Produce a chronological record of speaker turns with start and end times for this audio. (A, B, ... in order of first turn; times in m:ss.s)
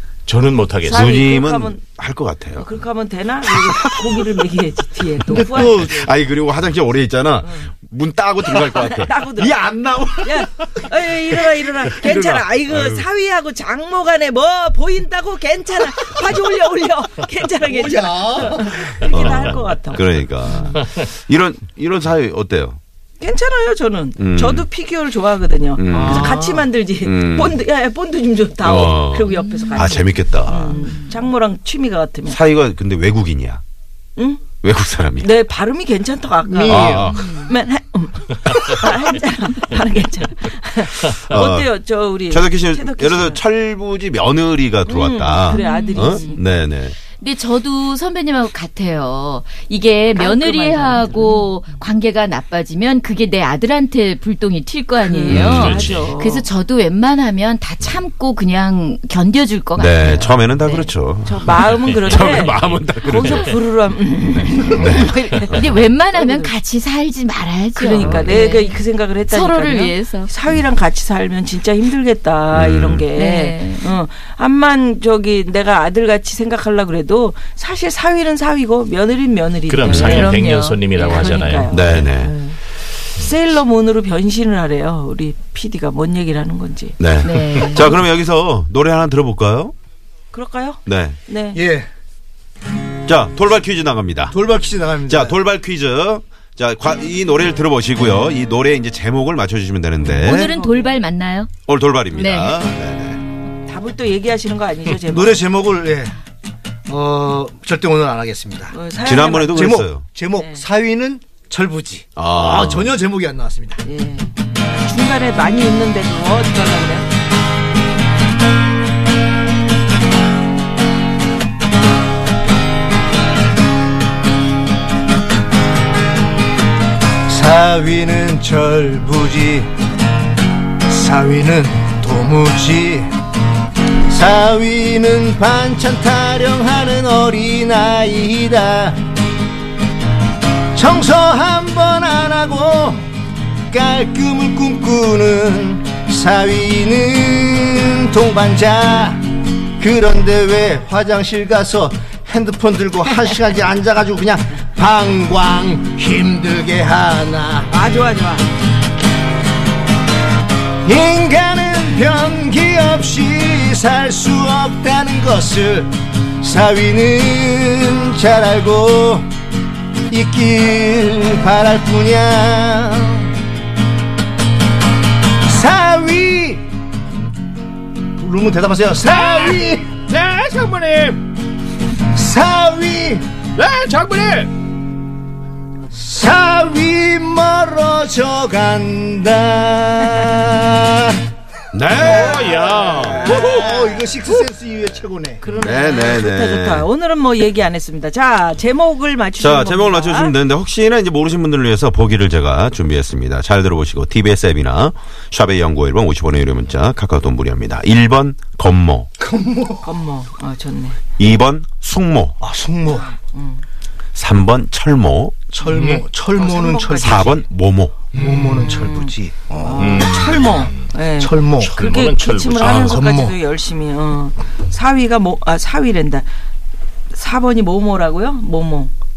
0:00.3-0:01.2 A
0:00.8-0:01.9 B
0:00.9-0:02.8 C
0:02.5-0:05.9 B
0:03.5-0:04.4 C
0:05.3-0:06.0 D
0:05.6-0:10.3 C
0:07.4-0:07.7 B
0:08.4-0:09.6 B
0:10.2-0:20.2 B
0:12.1-0:13.0 C
0:17.7-0:18.9 D
0:19.1-0:22.8 C
0:23.2-0:32.4 B
0:24.2-0:24.7 C
0:25.8-0:26.4 C
0:25.9-0:26.6 A
0:26.9-0:27.6 C
0:28.6-0:30.8 C
0:29.3-0:30.0 E
0:30.7-0:31.1 E
0:32.2-0:33.6 C
0:34.2-0:34.5 B
0:34.5-0:35.4 C
0:35.2-0:43.5 B
0:36.4-0:37.1 D
0:36.6-0:37.4 C
0:37.0-0:37.5 E
0:41.1-0:47.0 C
0:44.8-0:46.5 B
0:45.4-0:46.4 E
0:47.2-1:00.9 E
0:50.1-0:51.5 B
0:55.0-0:56.5 B
0:55.3-0:55.8 C
0:55.3-0:56.1 A
0:59.8-1:03.6 C
1:01.2-1:06.5 B
1:01.7-1:02.3 A
1:04.7-1:05.2 C
1:04.9-1:10.3 E
1:07.8-1:20.4 B
1:08.0-1:08.4 C
1:12.5-1:13.1 C
1:13.1-1:14.0 E
1:19.7-1:21.8 A
1:19.9-1:20.3 C
1:20.1-1:21.5 E
1:20.9-1:22.6 B
1:21.7-1:22.4 C
1:23.2-1:27.0 B
1:27.0-1:29.7 C
1:27.2-1:28.0 E
1:30.3-1:31.6 B
1:30.9-1:31.2 C
1:31.5-1:31.9 D
1:33.1-1:34.4 C
1:34.3-1:35.4 D
1:35.1-1:40.5 C
1:40.1-1:41.5 E
1:40.4-1:41.0 B
1:41.7-1:43.2 C
1:42.1-1:42.5 E
1:43.6-1:45.4 B
1:45.0-1:46.1 D
1:46.9-1:48.8 D
1:48.7-1:50.6 B
1:49.0-1:50.2 C
1:49.5-1:53.8 D
1:52.2-1:52.9 C
1:53.8-1:57.1 B
2:07.3-2:09.7 D
2:10.8-2:13.1 D
2:14.1-2:19.0 D
2:20.8-2:23.1 D
2:23.7-2:29.2 D
2:29.8-2:37.8 D
2:37.7-2:38.5 B
2:40.8-2:49.2 D
2:50.1-2:53.3 D
2:55.4-2:56.6 D
2:58.2-2:59.9 D
2:59.0-3:01.2 A
3:02.1-3:03.2 D
3:03.6-3:04.5 A
3:05.9-3:11.2 D
3:11.7-3:13.2 C
3:12.0-3:15.5 D
3:12.0-3:14.4 A
3:13.2-3:14.0 B
3:15.4-3:20.4 B
3:15.5-3:16.9 C
3:19.4-3:29.1 C
3:29.2-3:29.9 D
3:29.8-3:31.0 B
3:31.2-3:32.4 C
3:32.4-3:33.1 D
3:32.9-3:33.6 B
3:34.1-3:35.5 C
3:35.5-3:37.4 D
3:35.6-3:37.3 B
3:35.7-3:36.0 A
3:37.0-3:38.0 C
3:38.1-3:40.1 D
3:38.5-3:46.2 B
3:39.8-3:40.8 A
3:41.2-3:41.8 D
3:41.6-3:43.0 A
3:42.7-3:43.4 D
3:47.1-3:48.9 B